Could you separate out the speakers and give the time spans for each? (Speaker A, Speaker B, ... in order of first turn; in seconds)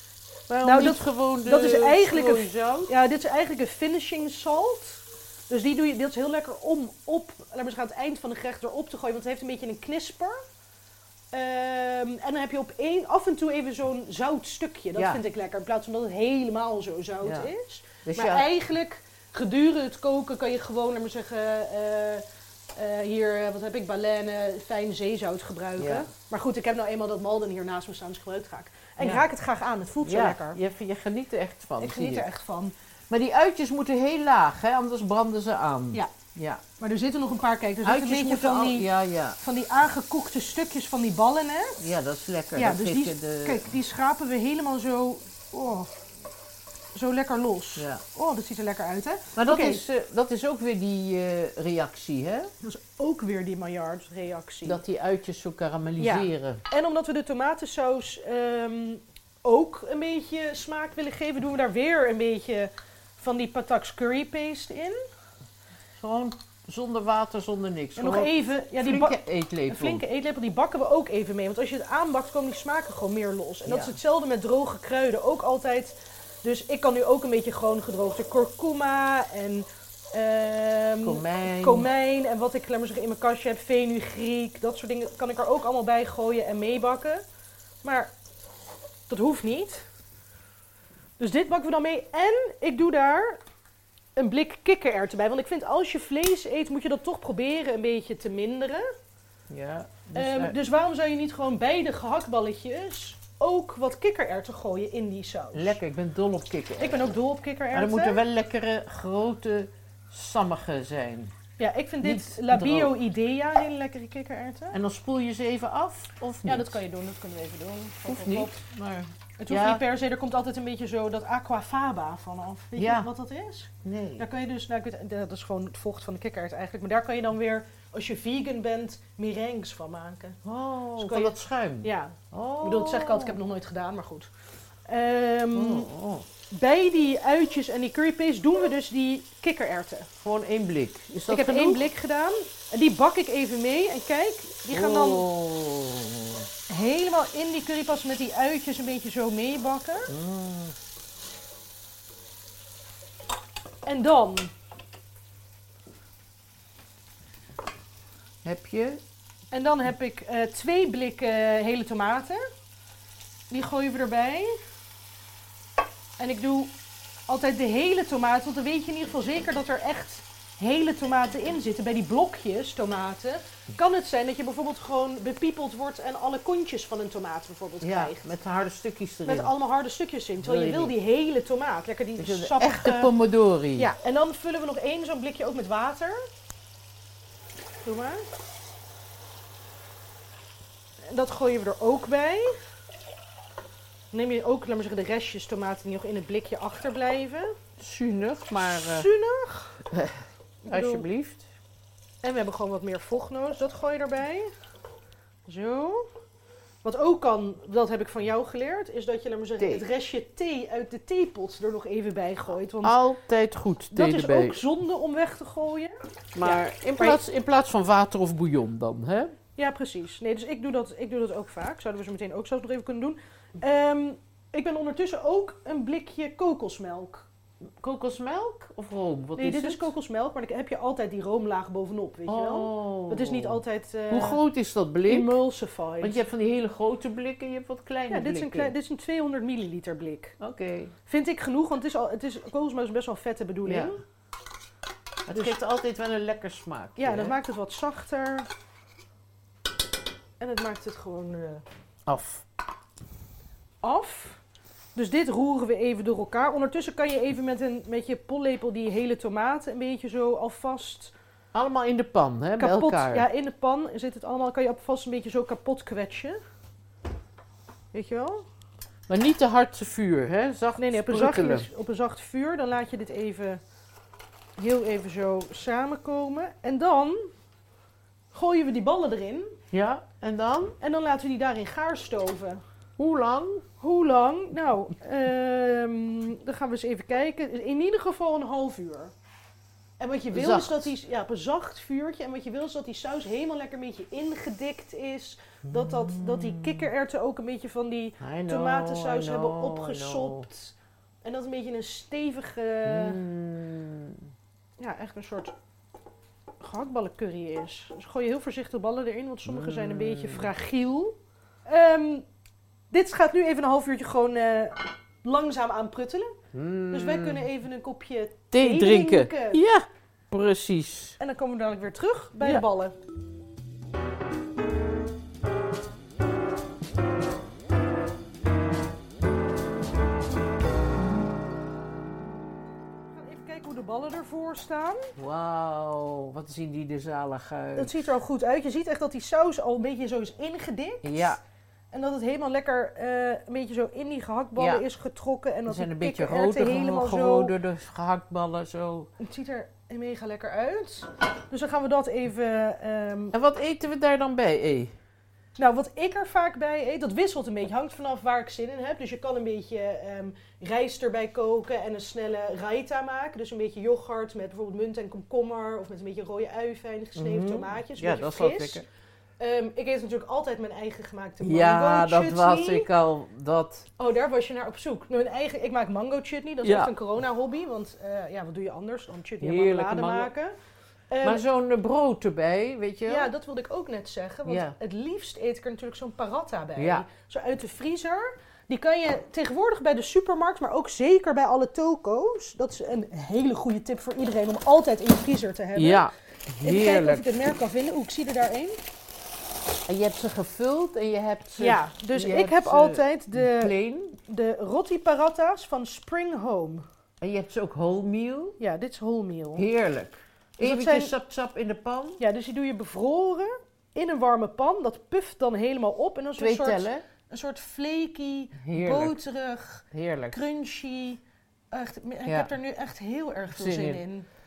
Speaker A: 0.5-2.9, 14.9-15.2, 17.2-17.5, 18.0-18.5, 25.8-26.1, 29.0-29.2, 30.0-32.3, 33.1-36.6, 37.8-39.4, 41.8-43.7, 47.8-48.0, 49.3-52.5, 54.6-56.6, 66.0-70.0, 73.6-74.0, 81.0-81.9, 99.5-100.5, 105.5-107.1, 107.7-111.3, 112.0-112.9, 114.7-116.8, 118.0-119.8, 122.8-123.1, 123.8-124.3, 130.4-133.4, 135.5-136.2, 140.2-141.8, 144.7-146.5, 150.1-150.7, 158.4-159.0, 177.8-179.5, 180.4-180.9, 182.2-183.9, 197.8-199.1, 199.9-201.5, 209.6-209.8, 212.8-214.6, 216.3-219.3, 227.8-229.9, 232.3-235.3, 236.0-238.7, 240.4-240.9, 243.6-243.9, 245.2-247.4, 252.1-252.4, 261.5-263.3, 269.1-271.7, 279.7-280.8, 283.0-283.6, 290.3-290.9, 295.6-296.9, 298.2-300.5, 302.9-304.2, 309.4-310.5, 316.5-317.5, 318.5-321.2, 322.4-322.6, 335.2-338.1, 341.0-341.4, 344.6-344.8, 345.7-349.1, 353.3-354.9, 367.1-368.8, 371.4-373.9, 376.6-376.9, 379.4-380.3, 381.2-383.3, 384.4-384.7, 386.8-387.0, 395.7-397.3, 399.9-404.1, 407.2-408.6, 409.6-412.2, 416.4-417.0, 418.6-419.2, 419.9-420.4, 422.2-422.5, 423.5-424.0
Speaker B: 0.6-10.4, 11.3-30.6, 31.8-32.7, 36.8-38.9, 39.4-41.8, 42.5-46.0, 46.9-49.8, 52.6-54.8, 56.0-65.0, 68.0-87.2, 87.8-88.1, 89.1-89.9, 91.2-93.4, 94.2-98.9, 100.1-105.8, 106.8-108.2, 111.6-114.8, 116.4-118.6, 119.4-130.4, 131.0-134.3, 134.9-135.9, 136.5-140.1, 141.3-145.3, 146.7-150.1, 153.8-154.5, 159.5-162.4, 163.5-164.6, 166.2-166.7, 167.3-178.2, 179.2-183.1, 183.8-186.3, 187.8-188.2, 191.1-192.6, 194.1-197.6, 198.9-199.8, 200.6-201.1, 202.2-204.5, 205.5-206.1, 206.8-212.9, 213.9-217.2, 219.6-227.3, 229.3-234.4, 235.1-236.2, 238.1-240.4, 241.1-244.0, 245.3-245.6, 247.0-248.5, 250.4-251.6, 253.8-254.4, 254.9-261.1, 262.6-266.4, 267.9-268.4, 270.8-273.6, 274.6-277.3, 278.3-279.6, 280.8-282.6, 283.8-289.1, 290.0-303.2, 304.8-305.5, 306.6-312.2, 312.9-316.4, 316.9-319.6, 321.2-322.9, 333.1-335.1, 337.8-341.4, 341.9-347.5, 349.2-353.3, 355.6-368.8, 369.4-372.9, 374.0-380.5, 381.1-381.4, 383.1-396.1, 396.6-398.8, 401.6-406.8, 408.6-409.6, 410.6-411.1, 412.2-424.3